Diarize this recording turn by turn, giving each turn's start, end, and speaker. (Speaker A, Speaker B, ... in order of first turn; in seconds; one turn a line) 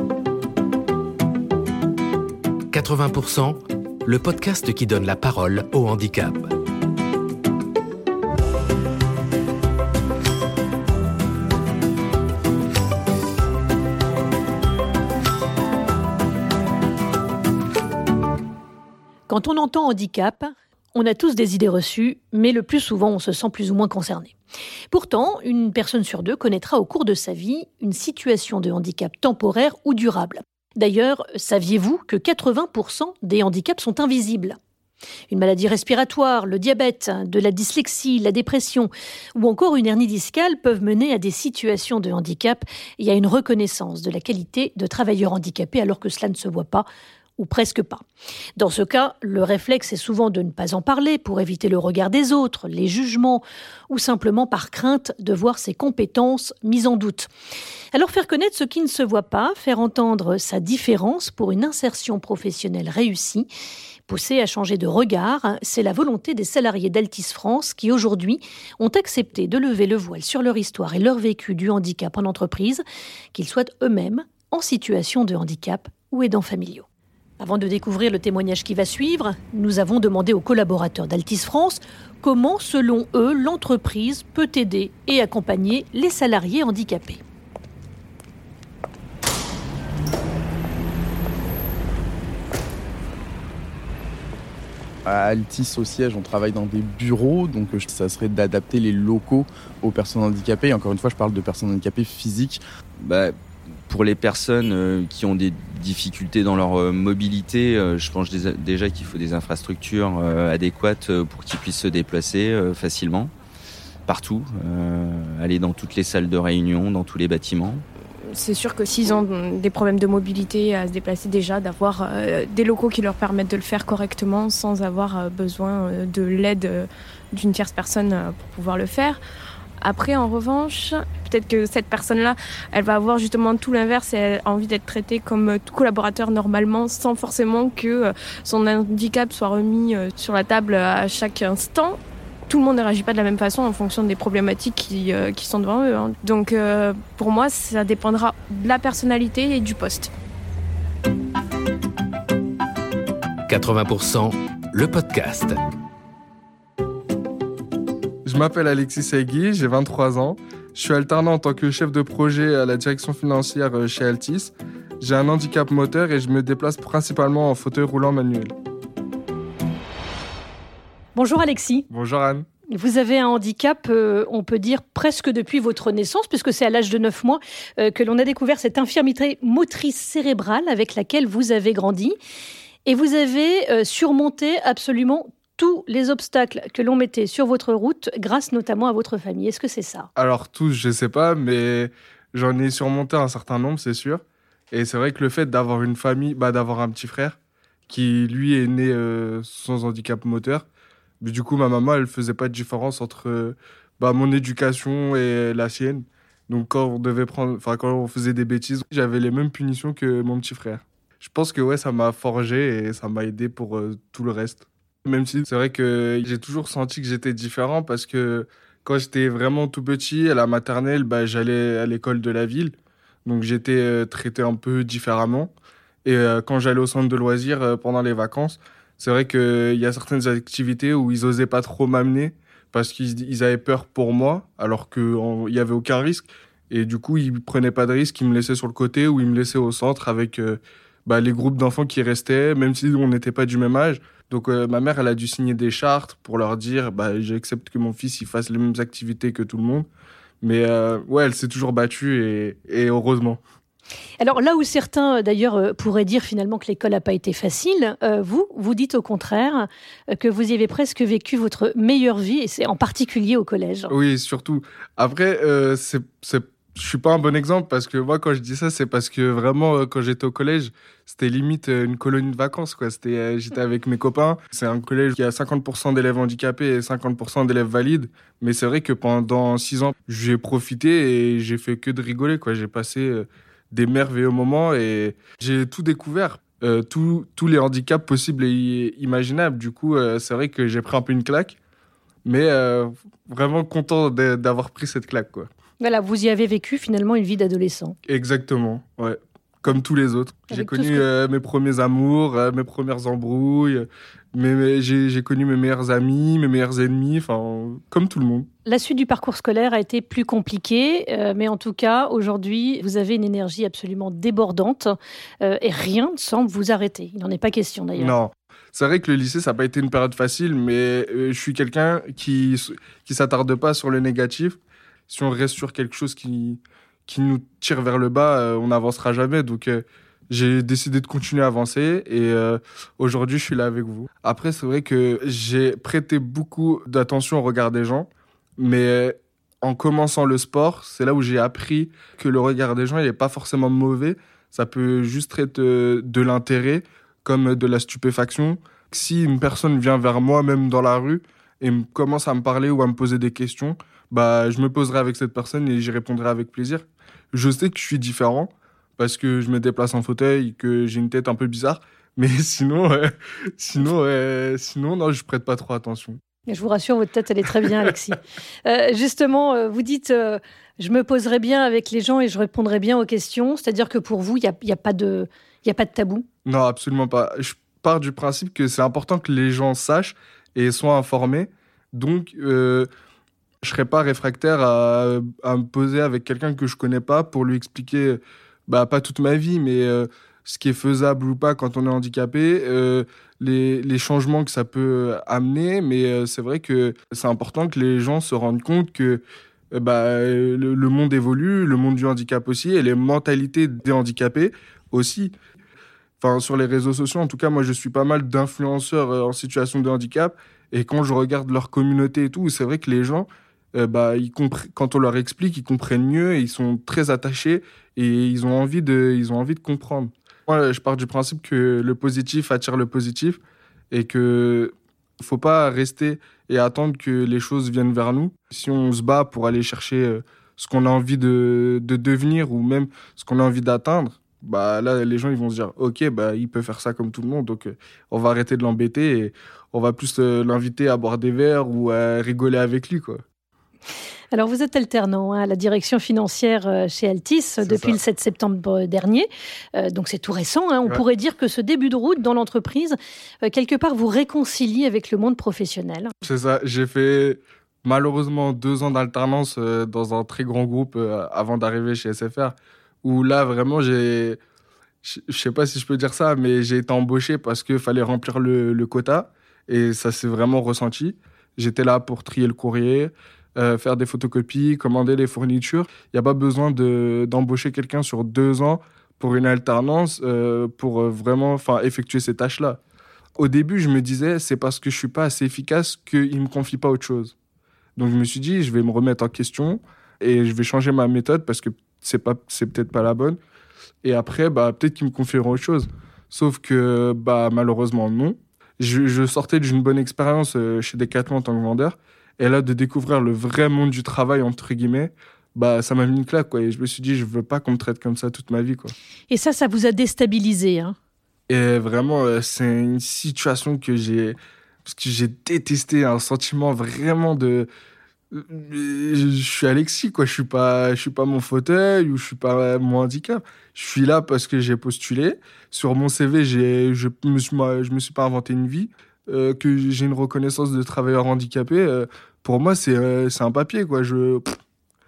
Speaker A: 2.7-6.5
Speaker B: 19.3-24.3
Speaker B: 24.9-34.6
Speaker B: 35.3-46.8
Speaker B: 47.4-48.0
Speaker B: 48.6-57.3
Speaker B: 57.9-63.5
Speaker B: 64.1-72.8
Speaker B: 73.3-76.8
Speaker B: 77.4-87.2
Speaker C: 95.1-102.6
Speaker D: 103.0-113.3
Speaker D: 114.1-117.8
Speaker E: 118.3-129.2
Speaker E: 129.8-150.1
Speaker A: 153.5-155.6
Speaker F: 158.2-168.5
Speaker B: 171.2-171.8
Speaker F: 171.9-172.4
Speaker B: 172.7-182.2
Speaker B: 182.9-190.1
Speaker F: 190.2-197.4
Speaker F: 197.9-200.7
Speaker F: 201.2-225.5
Speaker F: 226.1-249.9
Speaker F: 250.4-253.4
Speaker B: 254.2-263.9
Speaker F: 263.9-291.6
Speaker F: 292.2-295.5
Speaker B: 295.8-298.0
Speaker F: 298.1-308.5
Speaker B: 300.5-301.1
Speaker B: 308.7-314.9
Speaker B: 315.4-318.1
Speaker F: 318.0-366.2
Speaker B: 366.5-376.2
Speaker F: 376.5-382.9
Speaker F: 383.6-405.3
Speaker F: 406.2-423.4
Speaker F: 423.9-443.2
Speaker B: 444.3-456.1
Speaker F: 447.6-448.0
Speaker F: 456.2-464.4
Speaker F: 465.0-482.8
Speaker F: 483.4-487.3
Speaker F: 488.0-493.4
Speaker F: 494.0-508.9
Speaker B: 509.3-510.9
Speaker F: 511.5-517.7
Speaker F: 518.3-534.6